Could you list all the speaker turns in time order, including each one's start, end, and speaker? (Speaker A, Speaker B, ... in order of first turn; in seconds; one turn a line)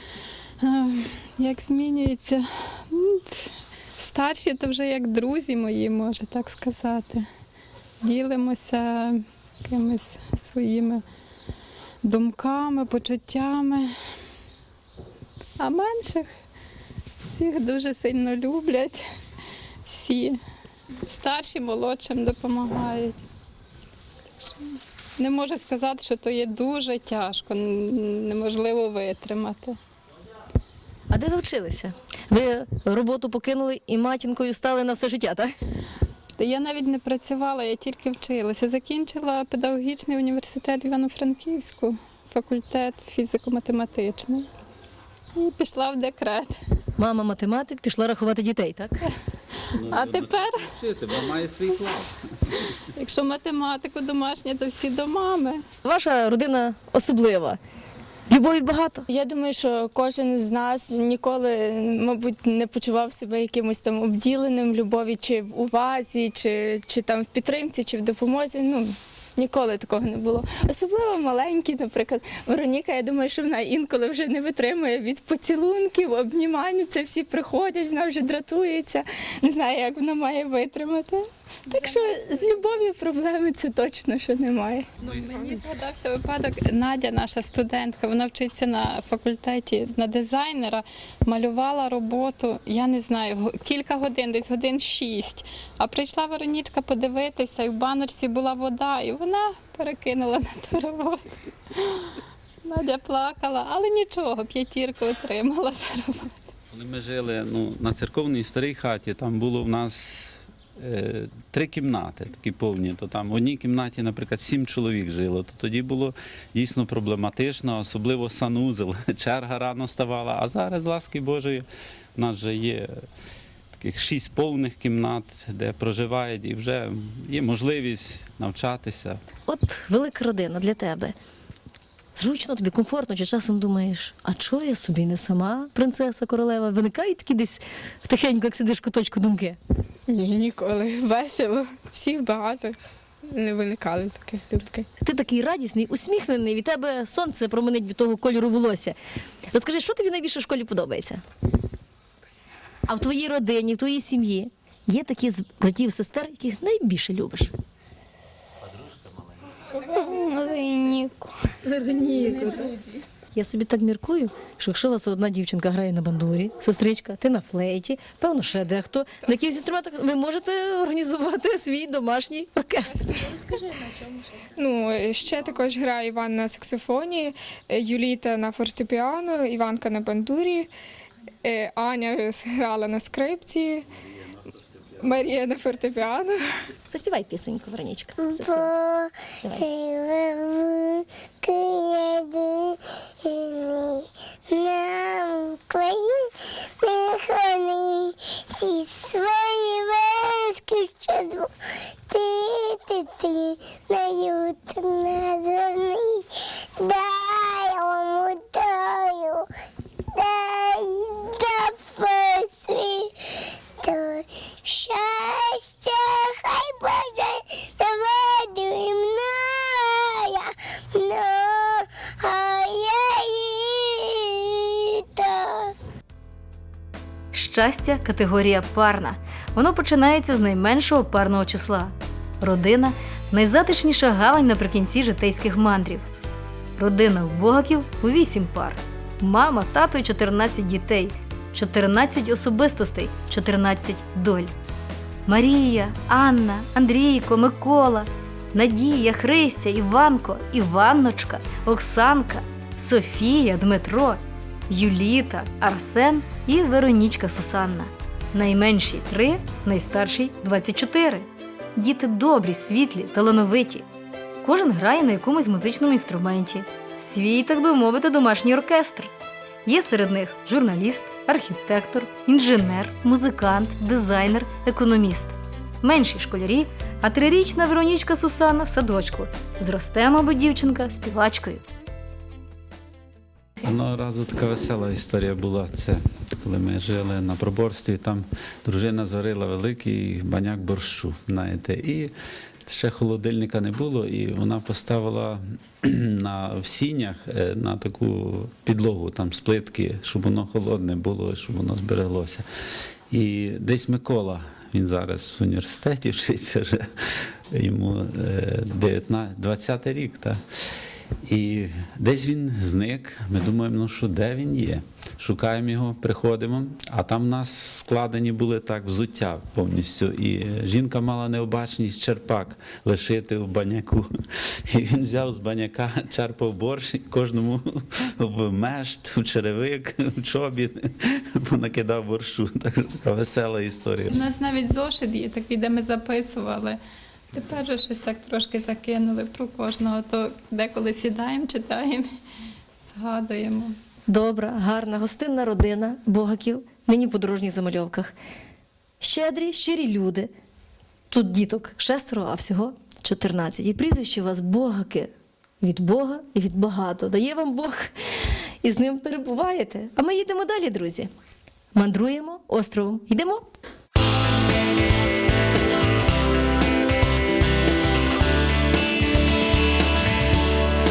Speaker A: 0.6-7.3
Speaker A: 8.0-11.0
Speaker A: 12.0-13.9
Speaker A: 15.6-16.3
Speaker A: 17.3-19.0
Speaker A: 19.9-20.4
Speaker A: 21.1-23.1
Speaker A: 25.2-29.8
Speaker B: 31.1-35.5
Speaker A: 36.4-44.5
Speaker A: 45.4-46.5
Speaker B: 47.0-49.1
Speaker C: 49.7-52.6
Speaker A: 49.9-50.7
Speaker A: 53.0-55.6
Speaker B: 55.8-57.6
Speaker B: 58.3-59.1
Speaker D: 59.1-84.9
Speaker A: 81.7-82.9
Speaker A: 85.0-101.2
Speaker C: 85.0-85.4
Speaker A: 101.7-106.4
Speaker C: 106.7-121.7
Speaker C: 122.2-123.0
Speaker C: 123.8-129.2
Speaker B: 129.5-131.2
Speaker B: 132.2-139.6
Speaker D: 140.1-142.8
Speaker D: 143.3-144.9
Speaker B: 145.0-149.0
Speaker B: 149.5-151.2
Speaker B: 152.9-157.5
Speaker D: 160.0-161.3
Speaker B: 161.8-162.7
Speaker B: 163.3-173.4
Speaker E: 174.6-180.7
Speaker E: 181.4-183.9
Speaker E: 185.0-186.4
Speaker B: 186.9-188.7
Speaker F: 188.2-201.5
Speaker B: 189.4-189.7
Speaker F: 202.1-209.5
Speaker F: 210.1-213.1
Speaker F: 213.8-225.7
Speaker G: 227.3-236.1
Speaker G: 236.8-244.5
Speaker G: 245.3-263.9
Speaker G: 264.4-269.1
Speaker G: 269.7-281.6
Speaker C: 283.6-292.1
Speaker C: 292.6-302.4
Speaker C: 303.1-310.4
Speaker C: 311.3-324.1
Speaker C: 324.7-334.2
Speaker A: 334.1-336.8
Speaker A: 337.3-342.1
Speaker A: 342.9-343.8
Speaker B: 344.1-348.1
Speaker B: 349.0-350.3
Speaker B: 351.1-357.9
Speaker B: 358.6-361.1
Speaker B: 361.8-363.5